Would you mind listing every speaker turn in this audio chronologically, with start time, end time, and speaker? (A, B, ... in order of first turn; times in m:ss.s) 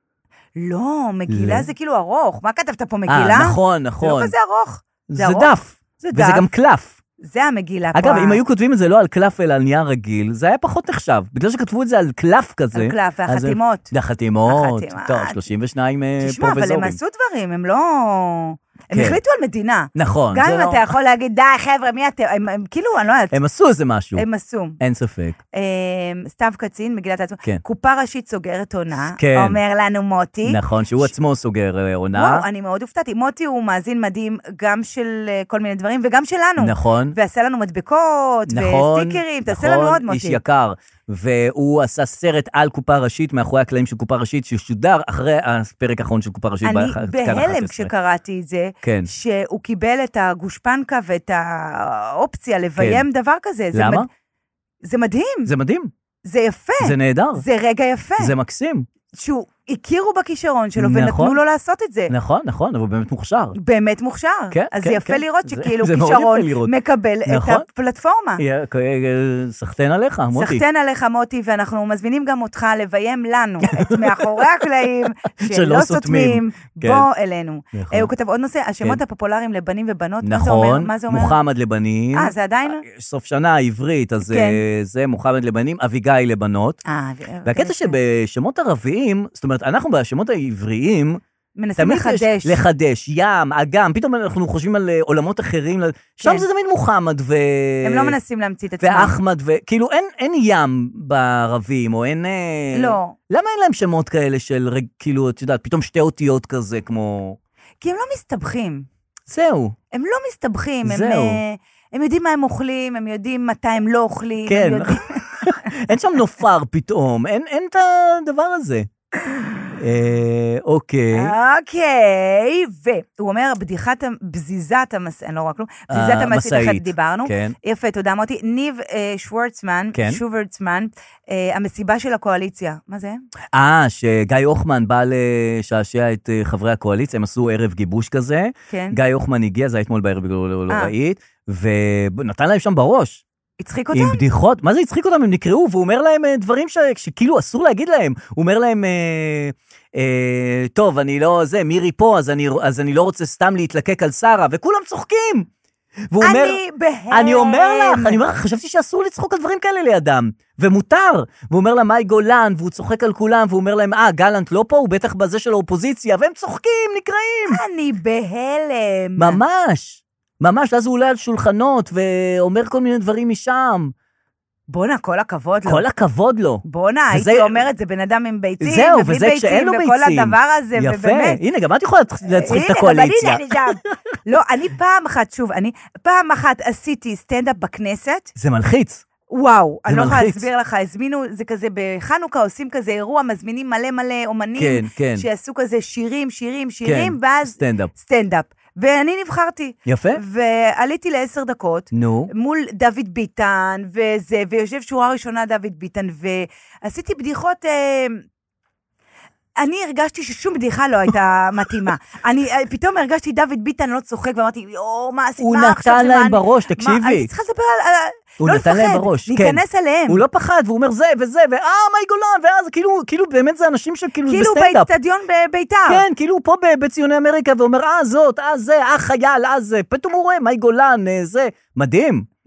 0:00.6-0:06.5 A
0:01.3-0:01.7 B
0:03.1-0:04.3 B
0:05.1-0:07.0 B
0:07.2-0:08.4 A
0:07.9-0:17.0 B
0:12.7-0:13.9 A
0:14.4-0:15.4 A
0:16.2-0:23.4 A
0:18.9-0:19.2 B
0:19.9-0:20.8 B
0:23.3-0:24.2 B
0:24.2-0:24.8 A
0:24.8-0:25.4 B
0:25.5-0:31.1 A
0:29.2-0:29.6 B
0:30.4-0:32.5 B
0:32.1-0:40.4 A
0:36.6-0:37.2 B
0:38.5-0:47.9 B
0:46.6-0:54.1 A
0:48.8-0:49.1 B
0:52.8-0:53.0 B
0:53.7-0:54.1 B
0:54.8-0:55.5 A
0:55.4-0:55.9 B
0:56.2-0:58.3 A
0:56.8-0:57.4 B
0:58.2-0:58.9 B
0:59.1-1:02.1 A
1:00.8-1:01.4 B
1:02.1-1:03.5 B
1:03.5-1:08.4 A
1:04.5-1:06.7 B
1:07.3-1:07.6 B
1:08.4-1:10.6 B
1:10.3-1:21.4 A
1:13.6-1:14.4 B
1:15.4-1:17.1 B
1:17.7-1:18.1 B
1:20.2-1:26.8 B
1:22.1-1:22.8 A
1:24.3-1:24.6 A
1:26.8-1:28.0 A
1:27.4-1:31.2 B
1:31.6-1:32.6 A
1:31.8-1:38.2 B
1:37.8-1:39.2 A
1:38.8-1:47.4 B
1:42.7-1:43.2 A
1:47.8-1:48.9 A
1:49.3-1:49.7 B
1:49.9-1:55.2 A
1:50.8-1:51.4 B
1:54.4-1:58.9 B
1:59.8-2:01.3 B
2:01.1-2:13.2 A
2:05.9-2:07.6 B
2:09.9-2:10.2 B
2:13.5-2:23.2 B
2:18.7-2:19.0 A
2:20.7-2:20.9 A
2:23.6-2:24.2 A
2:23.9-2:35.5 B
2:36.1-2:47.6 B
2:36.2-2:38.2 A
2:47.5-2:49.4 A
2:49.2-2:53.9 B
2:54.7-2:55.8 A
2:55.6-2:57.6 B
2:56.6-3:01.4 A
2:58.6-3:04.0 B
3:02.3-3:08.3 A
3:08.3-3:09.0 B
3:09.3-3:28.2 A
3:09.9-3:10.5 B
3:14.6-3:15.2 B
3:16.8-3:17.9 B
3:19.8-3:20.2 B
3:21.9-3:22.3 B
3:29.6-3:40.2 A
3:35.4-3:37.3 B
3:38.4-3:44.9 B
3:44.2-3:46.0 A
3:45.9-3:52.3 B